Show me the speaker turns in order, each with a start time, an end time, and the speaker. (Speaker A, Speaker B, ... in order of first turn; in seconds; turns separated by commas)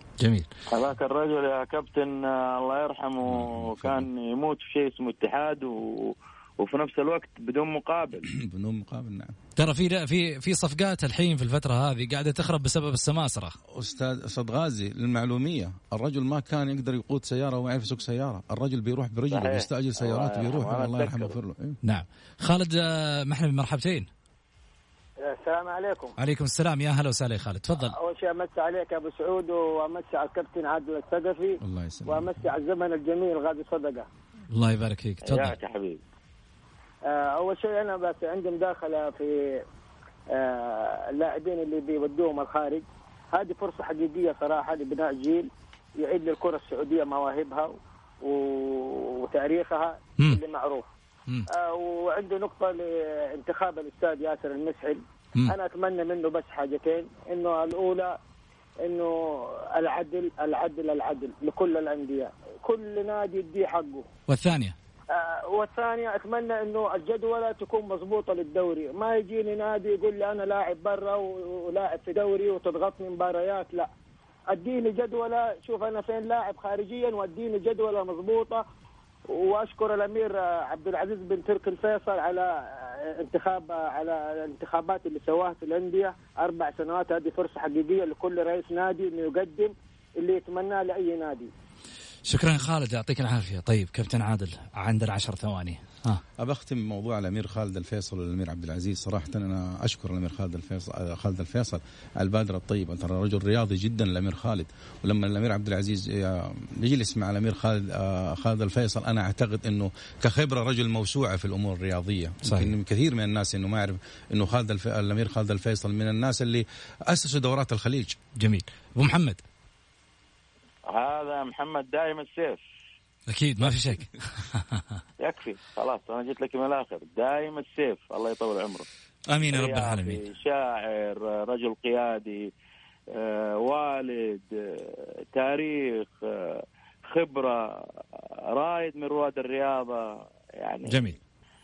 Speaker A: 0.2-0.5, Speaker B: 0.7-8.3, Speaker C: 3.2-4.1, Speaker C: 8.3-9.4, Speaker A: 9.6-13.6, Speaker C: 13.7-21.8, Speaker B: 19.3-21.4, Speaker A: 21.8-24.1, Speaker D: 25.2-26.1, Speaker A: 26.2-28.0, Speaker D: 27.9-34.1, Speaker C: 31.6-32.4, Speaker A: 34.5-35.5, Speaker B: 35.2-36.0, Speaker D: 37.1-39.6, Speaker D: 40.3-50.9, Speaker D: 51.5-58.2, Speaker D: 58.8-64.1, Speaker A: 64.3-64.8, Speaker D: 65.1-73.9, Speaker D: 74.5-78.7, Speaker D: 79.3-91.5, Speaker A: 92.3-96.2, Speaker C: 96.4-118.2, Speaker A: 112.4-112.7, Speaker A: 118.4-119.4, Speaker B: 120.9-122.6, Speaker A: 123.3-124.8, Speaker B: 125.2-128.9, Speaker A: 129.3-130.2, Speaker B: 129.5-132.5, Speaker B: 133.1-141.1, Speaker A: 140.9-141.2